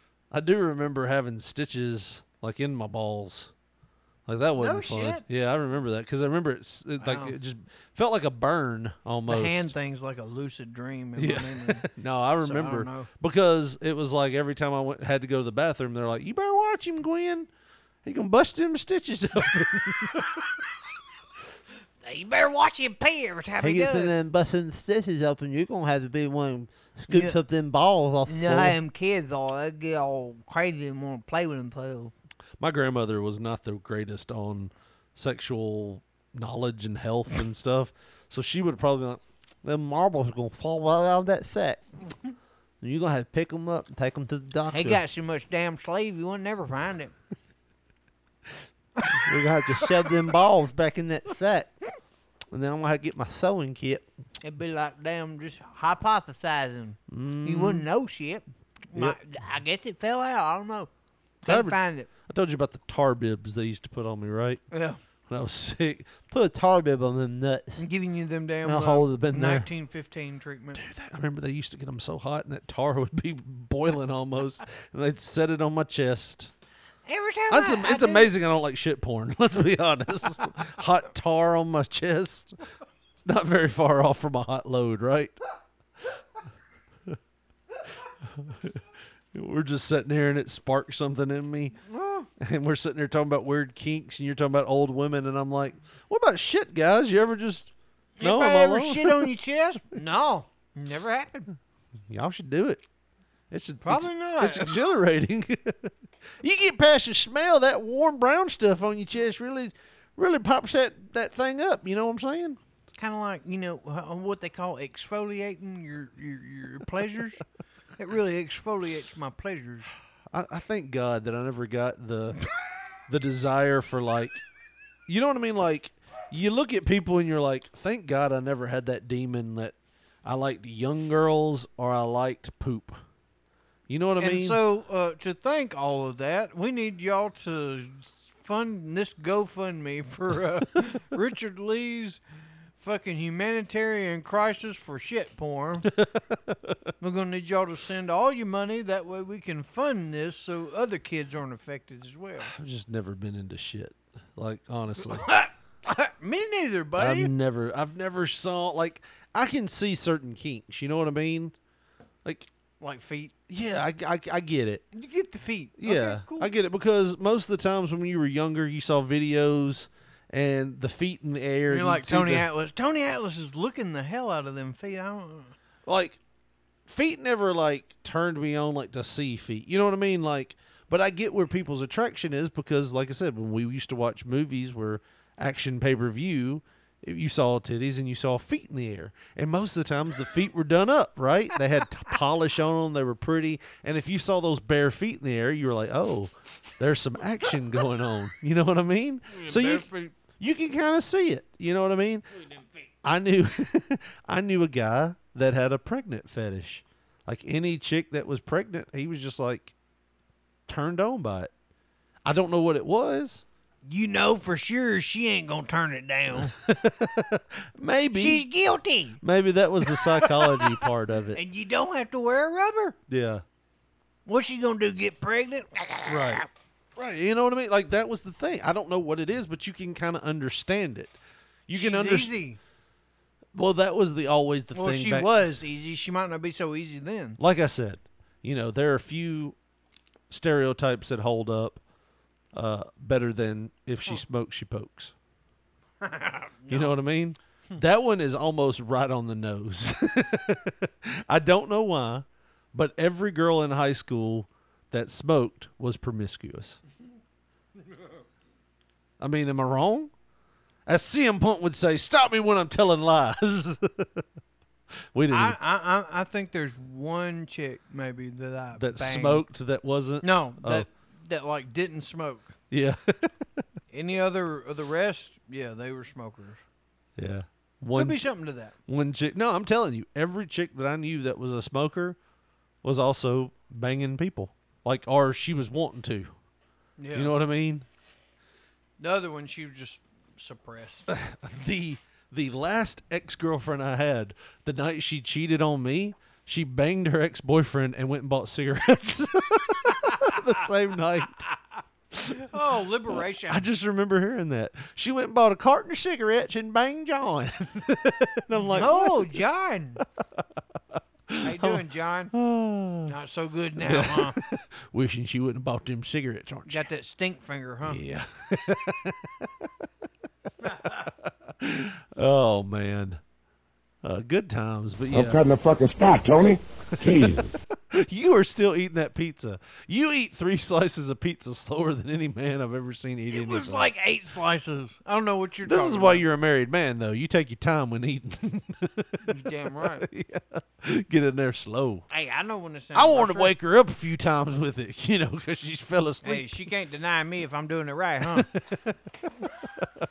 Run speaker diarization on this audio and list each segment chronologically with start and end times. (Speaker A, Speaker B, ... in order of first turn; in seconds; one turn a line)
Speaker A: 0.3-3.5
Speaker A: 4.3-9.7
Speaker B: 4.6-5.2
Speaker B: 7.0-7.4
Speaker B: 9.3-11.9
Speaker A: 11.2-17.5
Speaker B: 12.4-13.1
Speaker A: 18.0-20.3
Speaker B: 22.0-24.2
Speaker A: 23.6-28.8
Speaker B: 27.1-27.4
Speaker B: 28.3-32.1
Speaker A: 32.6-41.8
Speaker A: 42.8-45.0
Speaker B: 44.7-47.1
Speaker A: 49.1-51.7
Speaker A: 52.5-54.1
Speaker B: 54.4-60.9
Speaker A: 57.1-57.9
Speaker B: 61.4-62.1
Speaker A: 61.5-64.6
Speaker B: 64.7-65.0
Speaker A: 65.3-67.8
Speaker B: 67.8-70.8
Speaker A: 68.6-69.7
Speaker A: 70.8-76.5
Speaker B: 77.1-78.3
Speaker A: 77.5-82.5
Speaker A: 83.2-85.4
Speaker A: 88.2-88.8
Speaker A: 89.3-91.8
Speaker B: 91.9-92.3
Speaker A: 92.4-99.3
Speaker B: 98.2-101.5
Speaker A: 102.1-102.8
Speaker A: 103.5-112.6
Speaker B: 103.8-104.7
Speaker B: 113.0-117.4
Speaker B: 118.0-120.0
Speaker A: 120.3-122.4
Speaker A: 123.1-124.4
Speaker A: 125.1-133.0
Speaker A: 133.9-134.6
Speaker B: 134.2-142.2
Speaker B: 142.8-145.9
Speaker A: 146.0-146.8
Speaker B: 147.0-152.5
Speaker A: 152.4-155.3
Speaker B: 155.0-157.3
Speaker A: 157.0-161.6
Speaker A: 162.2-162.5
Speaker B: 162.8-163.3
Speaker A: 163.5-164.8
Speaker B: 164.9-166.5
Speaker A: 165.8-172.5
Speaker B: 171.7-175.6
Speaker A: 175.9-176.2
Speaker A: 176.9-202.3
Speaker B: 199.3-200.1
Speaker B: 202.3-202.9
Speaker A: 203.0-209.7
Speaker A: 210.7-211.5
Speaker A: 212.2-213.4
Speaker B: 213.8-216.5
Speaker A: 216.3-218.4
Speaker B: 218.2-219.2
Speaker A: 219.2-221.4
Speaker B: 219.9-220.8
Speaker B: 221.3-223.0
Speaker A: 223.1-223.4
Speaker B: 224.3-226.5
Speaker A: 226.1-226.4
Speaker A: 227.0-231.2
Speaker A: 231.7-232.3
Speaker B: 231.7-232.6
Speaker A: 233.6-235.3
Speaker B: 234.7-237.4
Speaker A: 237.4-239.6
Speaker A: 240.3-241.8
Speaker A: 242.5-245.1
Speaker B: 246.0-246.9
Speaker A: 246.7-256.8
Speaker A: 259.2-260.1
Speaker A: 260.9-264.2
Speaker A: 265.1-265.6
Speaker B: 265.3-269.4
Speaker A: 268.8-270.9
Speaker B: 270.2-272.5
Speaker A: 272.7-273.3
Speaker B: 273.9-276.6
Speaker A: 277.2-278.2
Speaker B: 277.9-278.8
Speaker A: 278.9-282.2
Speaker A: 282.8-286.3
Speaker B: 287.0-287.4
Speaker A: 287.1-287.9
Speaker B: 289.0-291.1
Speaker A: 291.1-301.5
Speaker A: 302.1-302.4
Speaker B: 302.4-303.6
Speaker A: 303.5-309.4
Speaker B: 308.6-310.0
Speaker A: 311.3-313.1
Speaker B: 311.4-312.3
Speaker B: 313.1-314.4
Speaker A: 313.8-316.8
Speaker B: 316.7-318.0
Speaker A: 317.9-319.7
Speaker A: 321.1-323.2
Speaker A: 324.0-325.4
Speaker C: 325.1-327.5
Speaker A: 327.0-333.9
Speaker B: 333.3-336.2
Speaker A: 335.6-342.0
Speaker B: 339.3-340.1
Speaker B: 342.1-343.5
Speaker A: 342.9-346.5
Speaker B: 346.2-348.5
Speaker A: 348.2-349.0